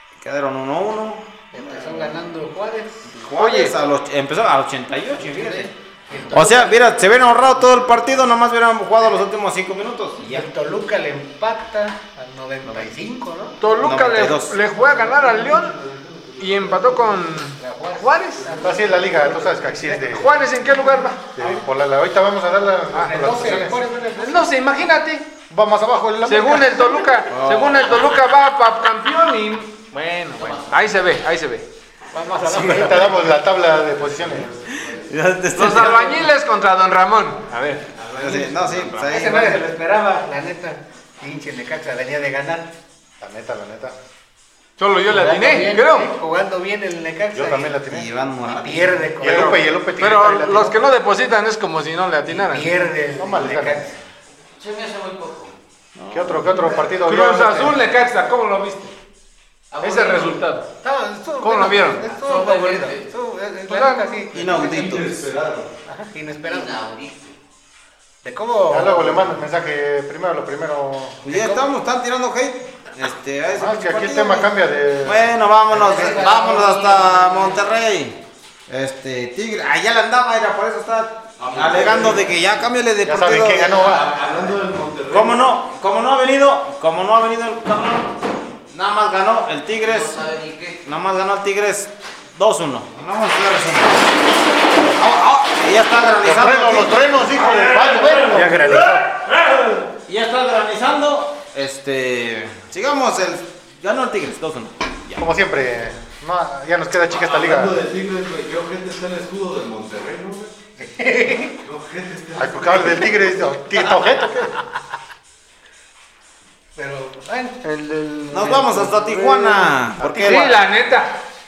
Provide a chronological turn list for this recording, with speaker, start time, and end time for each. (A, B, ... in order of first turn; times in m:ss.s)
0:00.2-0:02.2 A
0:01.5-0:03.1 B
0:03.1-0:05.7 A
0:03.4-0:03.7 C
0:05.2-0:07.0 B
0:06.3-0:10.5 A
0:06.7-0:08.2 D
0:10.2-0:13.6 B
0:13.6-0:15.8 C
0:13.8-0:14.6 A
0:14.7-0:17.5 D
0:16.4-0:18.5 C
0:17.6-0:21.6 B
0:18.3-0:19.5 D
0:18.6-0:20.4 E
0:20.0-0:21.3 C
0:21.3-0:23.8 E
0:22.9-0:24.5 B
0:24.1-0:25.3 C
0:25.5-0:27.1 E
0:26.2-0:31.6 C
0:27.3-0:28.2 A
0:30.4-0:30.9 F
0:32.1-0:33.4 B
0:32.5-0:34.5 E
0:33.8-0:35.1 D
0:34.7-0:36.3 A
0:35.5-0:39.2 C
0:38.1-0:39.7 A
0:39.0-0:42.7 B
0:43.2-0:43.9 E
0:44.8-0:46.1 C
0:45.1-0:47.8 B
0:47.3-0:48.1 E
0:47.9-0:49.1 A
0:48.4-0:49.7 B
0:49.2-0:50.8 E
0:49.4-0:52.7 C
0:52.3-0:54.0 B
0:53.2-0:53.9 E
0:54.6-0:55.6 F
0:56.0-0:56.7 A
0:56.1-0:57.8 E
0:56.9-0:58.9 C
0:59.7-1:00.4 F
0:59.8-1:00.7 C
1:00.8-1:04.6 B
1:01.4-1:02.2 C
1:02.2-1:03.1 F
1:03.7-1:04.3 C
1:04.3-1:05.3 A
1:04.3-1:05.7 D
1:05.8-1:06.8 B
1:06.4-1:07.4 F
1:08.2-1:09.4 B
1:08.7-1:11.2 E
1:11.2-1:14.5 A
1:11.2-1:11.7 B
1:13.5-1:15.3 E
1:15.0-1:24.0 A
1:15.7-1:16.6 B
1:15.7-1:17.5 F
1:21.4-1:22.4 D
1:23.0-1:24.2 E
1:23.8-1:25.5 D
1:25.1-1:30.3 A
1:29.8-1:30.8 F
1:30.8-1:45.3 A
1:36.2-1:38.9 E
1:38.3-1:39.0 B
1:45.2-1:47.8 E
1:47.1-1:50.5 D
1:50.8-1:51.6 B
1:51.6-1:53.3 D
1:52.4-1:54.5 E
1:56.8-1:59.6 B
1:58.3-1:58.6 C
1:58.3-2:00.6 A
2:00.0-2:00.5 E
2:00.0-2:01.2 C